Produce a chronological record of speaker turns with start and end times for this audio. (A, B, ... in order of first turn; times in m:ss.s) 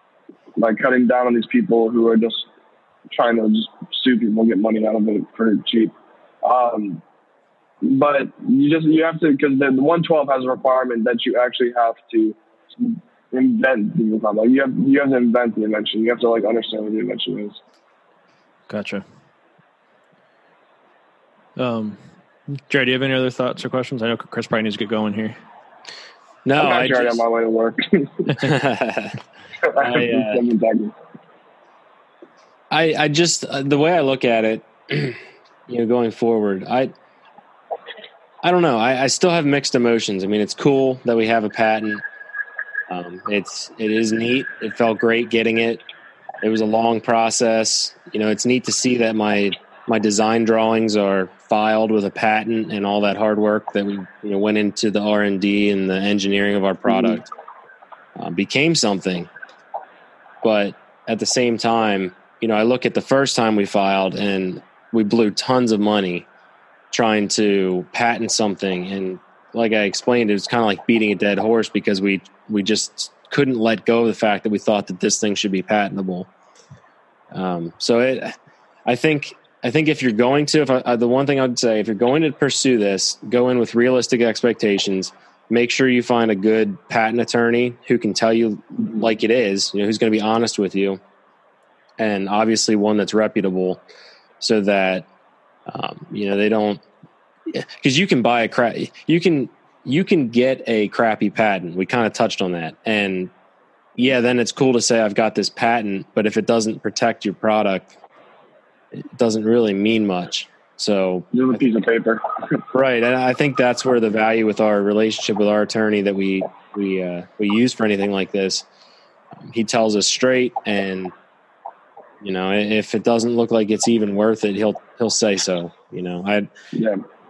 0:00.6-0:02.5 A
0:03.1-0:07.0 A
0:07.8-0:17.6 A
0:18.7-0:19.0 B
0:21.6-0:22.0 B
0:22.6-0:25.4 B
0:26.4-0:27.2 C
0:26.6-0:28.4 A
0:28.4-0:29.2 C
0:29.6-0:30.9 A
0:29.8-0:30.4 C
0:32.7-0:36.9 C
0:38.4-0:42.0 C
0:42.9-0:45.8 C
0:46.4-0:57.3 C
0:58.2-0:59.3 C
1:00.4-1:06.2 C
1:06.9-1:16.3 C
1:17.3-1:18.4 C
1:18.9-1:31.0 C
1:32.0-1:33.8 C
1:34.4-1:35.1 C
1:35.7-1:36.8 C
1:37.5-1:43.3 C
1:44.0-1:47.9 C
1:48.9-1:51.6 C
1:51.3-1:52.2 A
1:52.7-1:58.6 C
1:59.4-2:01.1 C
2:02.2-2:06.5 C
2:06.7-2:07.0 A